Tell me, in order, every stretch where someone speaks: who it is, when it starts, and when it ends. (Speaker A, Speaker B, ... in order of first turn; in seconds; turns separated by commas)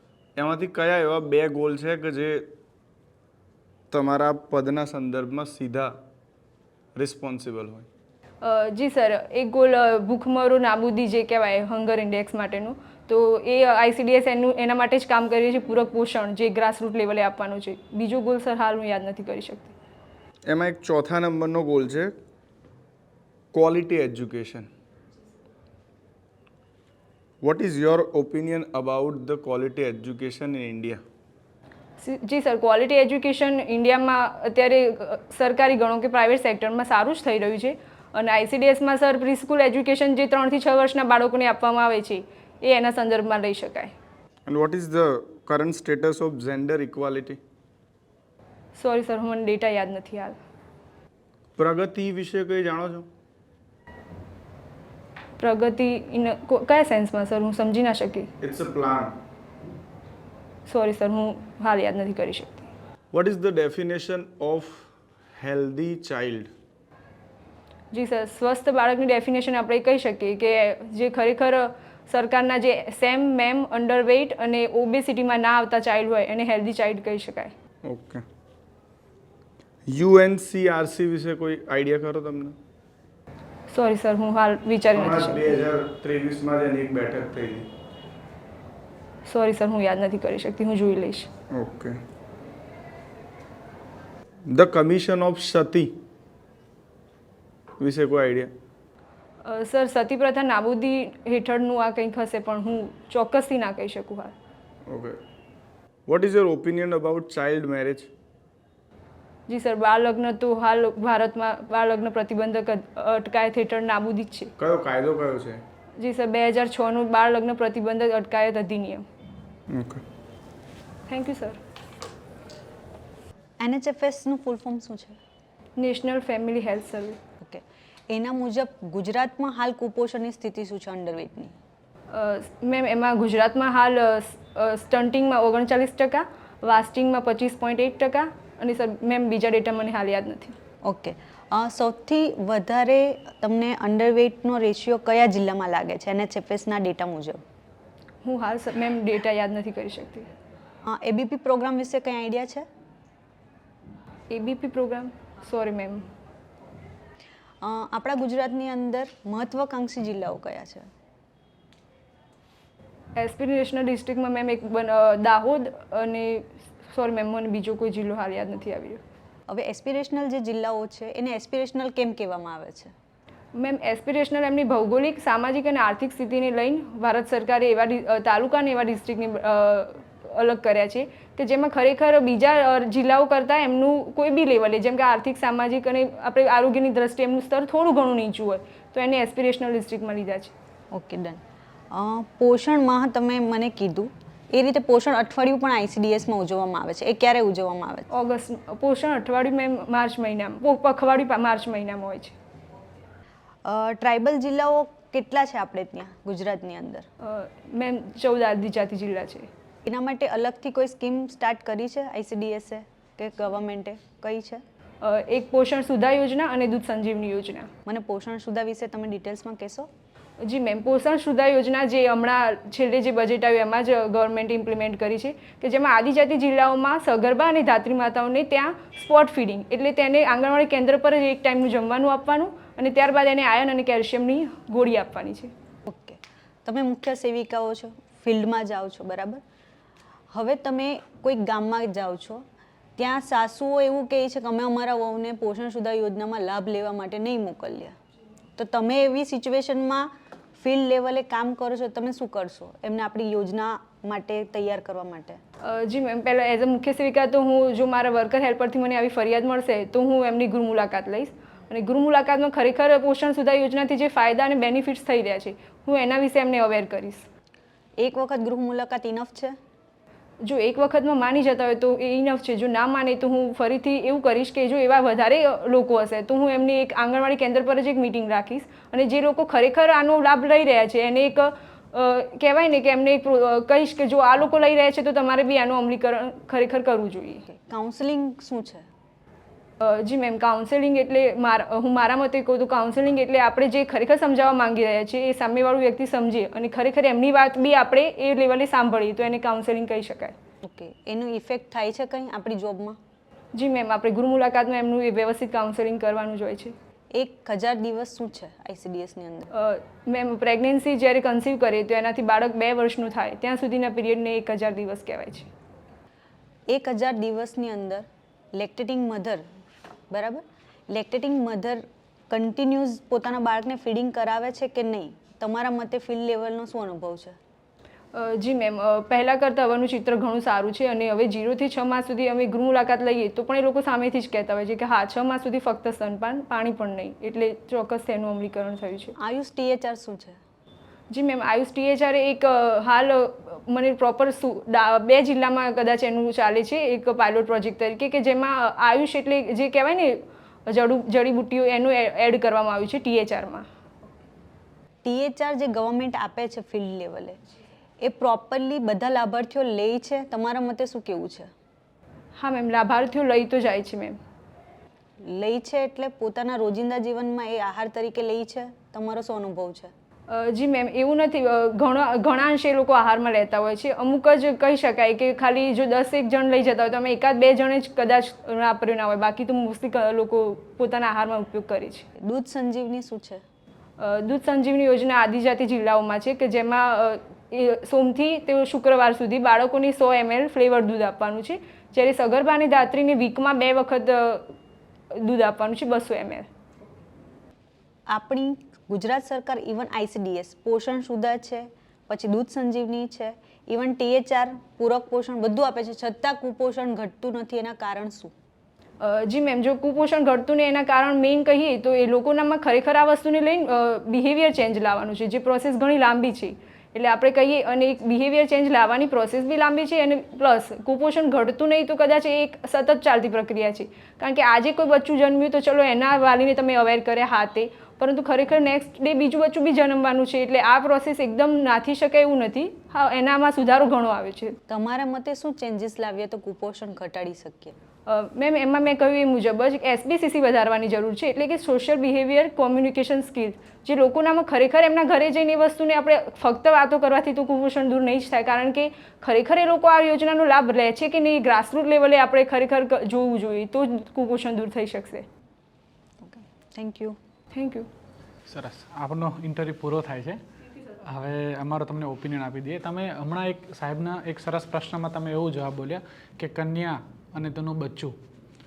Speaker A: 0.4-2.5, Speaker A: 3.9-6.0, Speaker A: 7.0-7.9, Speaker B: 8.4-19.7, Speaker A: 20.5-22.2, Speaker A: 23.5-24.7, Speaker A: 27.4-31.0, Speaker B: 32.0-43.9, Speaker A: 44.5-47.4, Speaker B: 48.8-50.4, Speaker A: 51.6-53.1, Speaker B: 55.4-58.3, Speaker A: 58.4-59.1, Speaker B: 60.7-62.7, Speaker A: 63.1-66.5, Speaker B: 67.9-77.5, Speaker A: 77.8-78.2, Speaker A: 79.9-82.6, Speaker B: 83.7-85.7, Speaker A: 85.0-87.7, Speaker B: 89.3-91.3, Speaker A: 91.5-92.0, Speaker A: 94.5-96.0, Speaker A: 97.8-98.5, Speaker B: 99.4-104.3, Speaker A: 104.9-105.2, Speaker A: 106.1-108.1, Speaker B: 109.5-114.5, Speaker A: 114.6-115.6, Speaker B: 116.0-119.0, Speaker A: 119.7-120.0, Speaker B: 121.1-121.6, Speaker C: 123.6-125.2, Speaker B: 125.8-127.2, Speaker C: 127.4-131.6, Speaker B: 132.1-140.6, Speaker C: 140.8-147.4, Speaker B: 148.2-150.3, Speaker C: 150.8-152.7, Speaker B: 154.3-156.1, Speaker C: 157.6-160.9, Speaker B: 163.2-169.0, Speaker C: 169.5-172.9, Speaker B: 173.6-190.5, Speaker C: 190.9-191.4, Speaker C: 191.9-198.1, Speaker B: 198.1-202.3, Speaker C: 203.7-207.1, Speaker B: 207.2-209.5, Speaker C: 209.8-214.6, Speaker B: 215.0-217.7, Speaker C: 217.9-219.9, Speaker B: 220.4-235.5, Speaker C: 235.9-239.4, Speaker C: 240.3-242.4, Speaker C: 243.0-248.0, Speaker C: 248.6-255.4, Speaker B: 255.6-267.2, Speaker C: 268.0-269.6, Speaker B: 270.4-287.4, Speaker C: 287.5-288.9, Speaker B: 289.8-300.4, Speaker C: 300.6-303.0, Speaker B: 303.5-306.8, Speaker C: 307.1-309.5, Speaker B: 309.5-315.5, Speaker C: 316.7-319.4, Speaker C: 320.1-327.4, Speaker B: 328.1-339.1, Speaker C: 339.2-340.4, Speaker B: 341.1-353.7, Speaker C: 355.0-357.4, Speaker C: 358.0-361.5, Speaker B: 362.4-364.2, Speaker C: 365.2-369.9, Speaker B: 370.3-382.1, Speaker C: 382.2-383.4, Speaker B: 384.0-394.5, Speaker B: 395.1-396.5, Speaker C: 398.1-408.3, Speaker B: 409.0-434.6, Speaker C: 434.7-437.8, Speaker B: 438.1-455.3, Speaker C: 456.2-457.2, Speaker B: 457.5-457.9, Speaker D: 458.5-460.4, Speaker D: 461.0-468.1